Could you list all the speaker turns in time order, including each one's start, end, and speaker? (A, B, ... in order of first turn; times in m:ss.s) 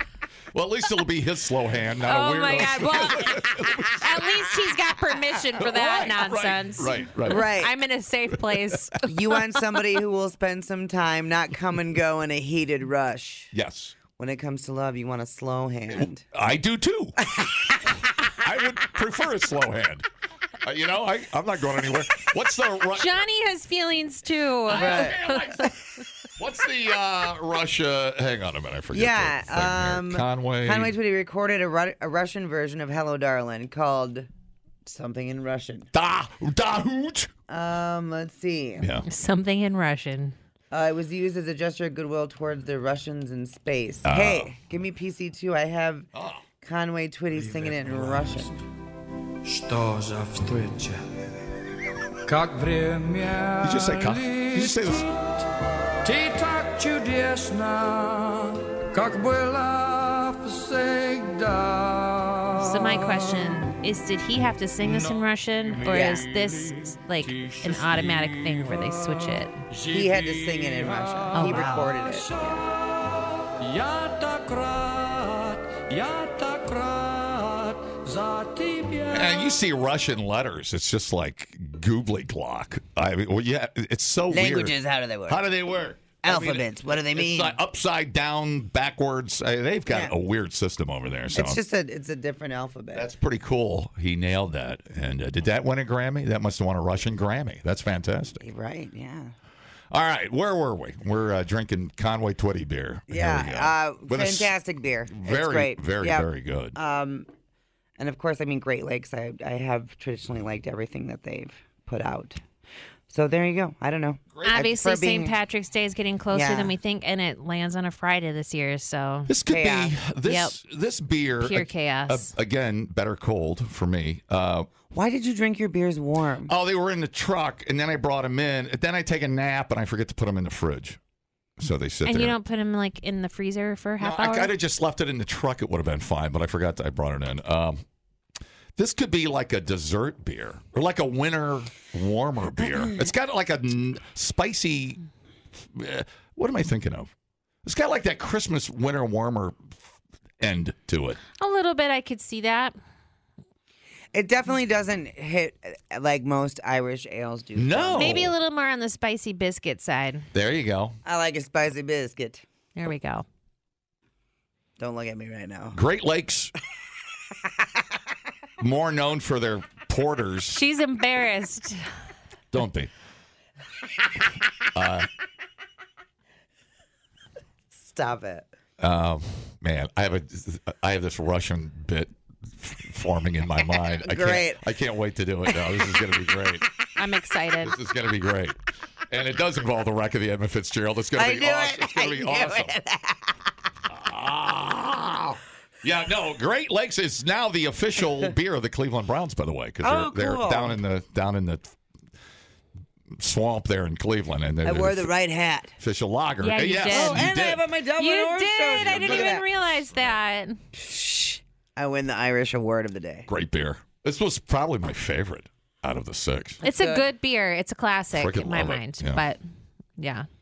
0:00.5-0:04.0 A
0:02.0-0:09.1 B
0:05.6-0:07.5 A
0:07.2-0:07.7 C
0:09.0-0:13.5 C
0:13.5-0:14.0 A
0:14.1-0:16.2 C
0:15.9-0:17.4 A
0:17.3-0:18.0 C
0:18.3-0:20.0 A
0:20.6-0:23.1 A
0:23.0-0:25.6 B
0:24.7-0:25.7 A
0:24.7-0:25.3 C
0:26.4-0:30.9 A
0:28.9-0:34.3 C
0:34.8-0:35.9 C
0:35.9-0:37.3 A
0:37.5-0:38.9 C
0:38.8-0:39.0 A
0:39.0-0:40.4 B
0:40.7-0:46.1 C
0:44.0-0:44.5 A
0:46.1-0:46.4 A
0:46.6-0:48.6 C
0:47.3-0:48.6 D
0:49.4-0:51.0 D
0:52.2-0:55.5 D
0:53.6-0:55.1 A
0:56.0-1:03.8 D
1:02.6-1:09.6 B
1:04.8-1:19.6 D
1:05.8-1:06.2 C
1:09.9-1:12.6 C
1:11.3-1:11.8 B
1:19.1-1:24.7 A
1:24.3-1:25.4 C
1:25.3-1:31.6 A
1:26.2-1:27.6 C
1:29.9-1:30.1 C
1:31.3-1:33.0 C
1:32.9-1:38.4 A
1:38.4-1:39.3 C
1:39.9-1:44.5 A
1:43.1-1:47.3 C
1:45.1-1:46.8 A
1:48.0-1:52.4 C
1:53.1-1:55.3 C
1:54.4-1:59.3 B
1:56.3-1:56.8 C
1:59.3-2:04.7 A
1:59.5-1:59.9 C
2:00.2-2:00.6 B
2:01.4-2:02.3 B
2:04.9-2:06.5 C
2:06.5-2:11.0 A
2:11.6-2:12.4 A
2:12.0-2:14.5 B
2:14.0-2:17.8 A
2:18.8-2:25.0 A
2:25.6-2:27.1 A
2:27.6-2:29.6 A
2:30.4-2:31.2 A
2:31.4-2:32.8 B
2:34.1-2:38.3 C
2:37.6-2:38.3 A
2:38.0-2:40.3 B
2:40.3-2:41.0 A
2:41.0-2:42.4 C
2:42.8-2:43.2 B
2:44.8-2:45.8 C
2:45.7-2:46.5 A
2:48.6-2:50.6 A
2:50.5-2:51.8 B
2:52.5-2:52.9 A
2:54.7-2:55.1 A
2:57.7-2:58.5 C
2:58.8-3:06.7 A
3:04.0-3:04.6 C
3:07.0-3:07.7 B
3:07.6-3:08.6 A
3:09.1-3:12.7 A
3:11.2-3:13.4 C
3:13.9-3:21.7 A
3:19.8-3:20.8 C
3:23.2-3:25.1 A
3:24.6-3:25.7 C
3:25.8-3:27.7 A
3:26.4-3:27.3 B
3:26.9-3:29.4 C
3:28.0-3:30.6 B
3:28.8-3:29.3 A
3:30.7-3:33.3 C
3:33.3-3:36.6 A
3:36.6-3:37.1 C
3:36.6-3:39.4 B
3:38.1-3:39.2 A
3:40.0-3:40.3 B